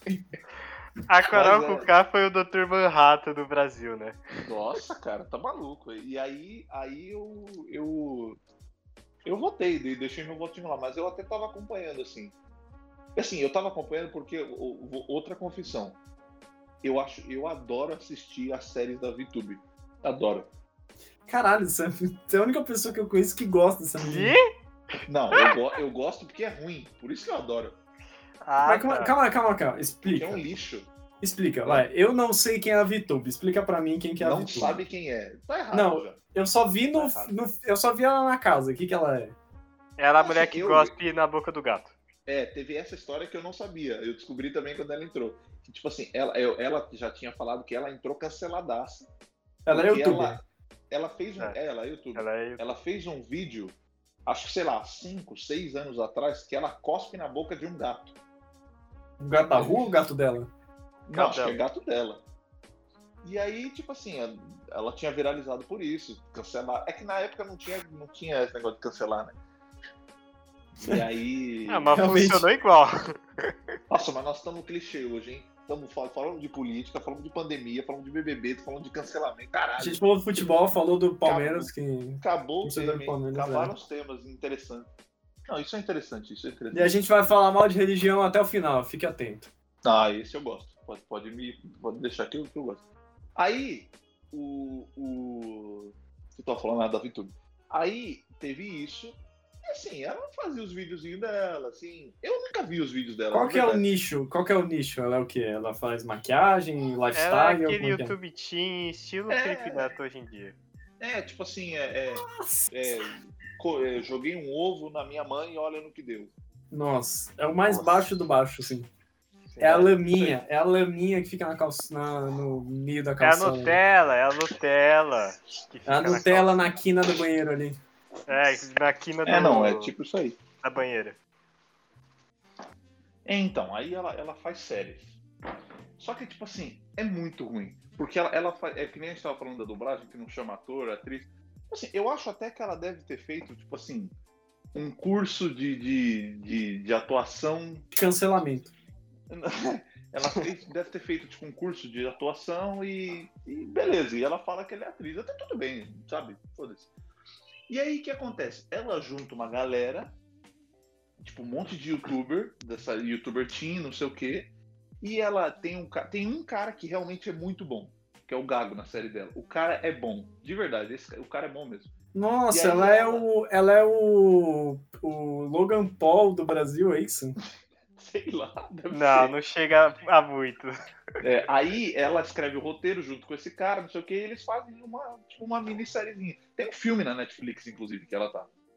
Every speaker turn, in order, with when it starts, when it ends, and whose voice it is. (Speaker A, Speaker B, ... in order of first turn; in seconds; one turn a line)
Speaker A: 1.1-4.2
Speaker B: 1.3-1.9
Speaker B: 4.4-8.4
Speaker B: 9.2-12.3
Speaker B: 13.2-16.0
Speaker B: 16.8-20.5
Speaker C: 21.3-24.4
Speaker A: 24.0-24.5
Speaker B: 25.1-27.8
Speaker A: 28.4-29.1
Speaker C: 28.6-30.4
Speaker B: 30.1-30.9
Speaker C: 31.2-34.8
Speaker B: 34.2-36.2
Speaker C: 35.7-39.4
Speaker B: 37.0-37.3
Speaker A: 40.0-41.9
Speaker B: 40.2-40.9
Speaker B: 42.3-49.1
Speaker C: 49.6-50.4
Speaker B: 49.7-53.7
Speaker A: 52.1-52.6
Speaker B: 54.2-58.1
Speaker C: 59.2-60.5
Speaker B: 59.5-60.0
Speaker B: 61.1-62.2
Speaker A: 61.1-61.6
Speaker B: 63.2-69.3
Speaker B: 70.8-72.0
Speaker A: 71.7-73.5
Speaker C: 71.9-72.5
Speaker B: 73.9-80.5
Speaker C: 79.8-83.7
Speaker B: 81.2-84.9
Speaker B: 85.5-87.0
Speaker C: 86.7-89.5
Speaker B: 89.8-92.8
Speaker B: 93.3-103.8
Speaker C: 103.3-108.1
Speaker A: 107.1-110.5
Speaker B: 109.3-109.9
Speaker B: 111.0-116.3
Speaker C: 112.2-113.0
Speaker C: 116.7-118.9
Speaker B: 117.7-118.0
Speaker A: 119.5-119.8
Speaker C: 119.6-123.8
Speaker B: 119.6-120.4
Speaker A: 123.2-126.7
Speaker C: 125.9-127.8
Speaker A: 128.3-129.9
Speaker B: 129.2-130.4
Speaker A: 130.6-131.2
Speaker B: 133.2-135.2
Speaker B: 136.0-144.1
Speaker B: 144.7-147.9
Speaker C: 147.9-148.7
Speaker B: 149.3-156.9
Speaker B: 157.7-160.1
Speaker B: 161.2-164.5
Speaker B: 165.0-171.9
Speaker C: 172.1-177.4
Speaker B: 172.5-173.3
Speaker B: 178.0-179.3
Speaker A: 178.9-180.8
Speaker B: 181.2-188.5